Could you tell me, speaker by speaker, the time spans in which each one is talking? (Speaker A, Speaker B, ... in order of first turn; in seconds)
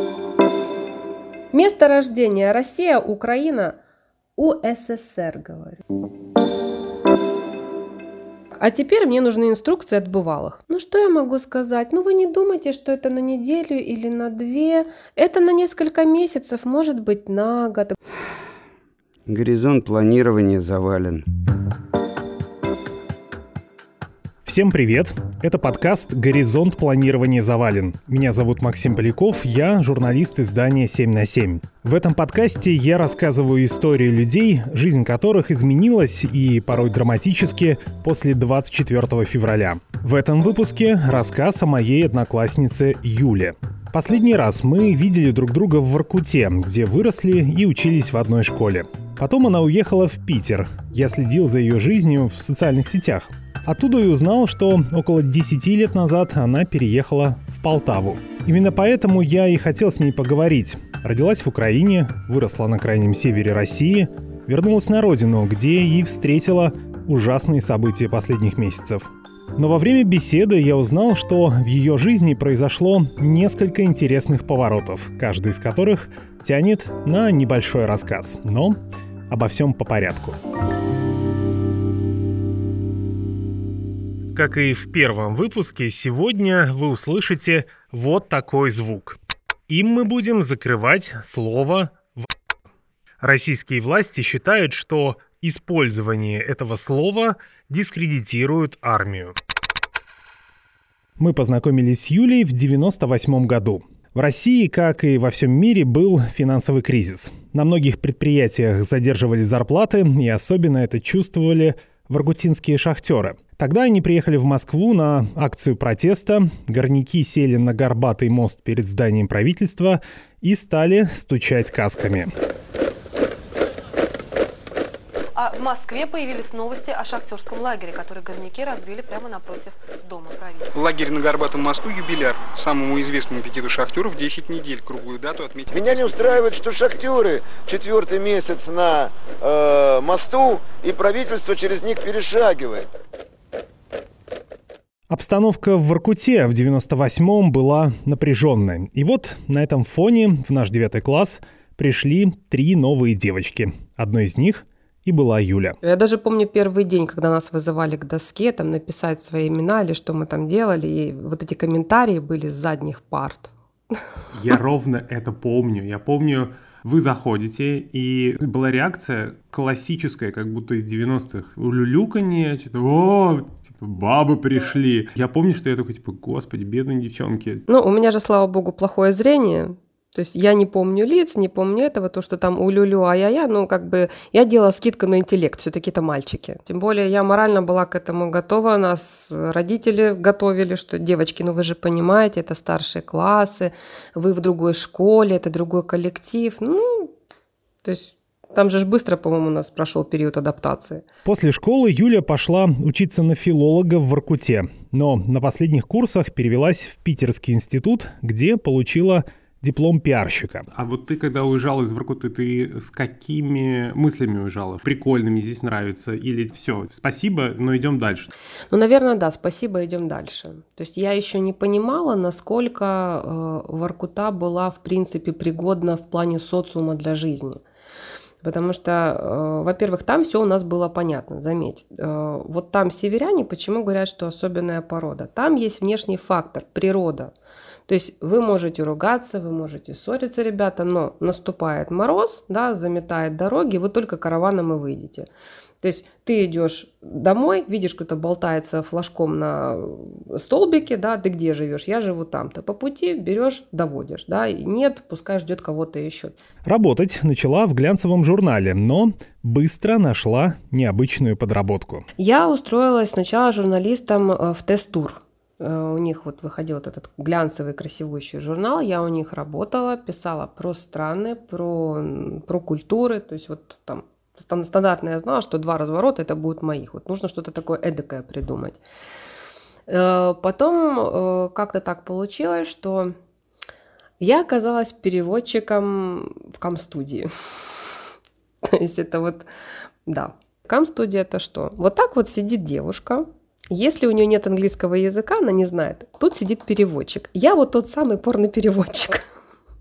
Speaker A: 1.5-3.8, 4.4-5.8, 8.6-17.9, 155.8-163.5, 177.7-197.1, 197.8-201.0, 218.7-227.6, 228.4-237.3, 237.9-245.3, 245.8-256.4, 262.2-278.8, 279.9-283.1, 284.2-287.3, 288.6-289.5, 290.1-299.2
Speaker B: 19.3-21.2
Speaker C: 24.4-80.4, 84.3-92.2, 93.2-99.4, 101.2-122.3, 145.1-155.8, 164.3-177.6, 201.2-218.3, 256.6-262.1
Speaker D: 125.4-130.7
Speaker E: 130.7-136.6
Speaker F: 135.7-142.9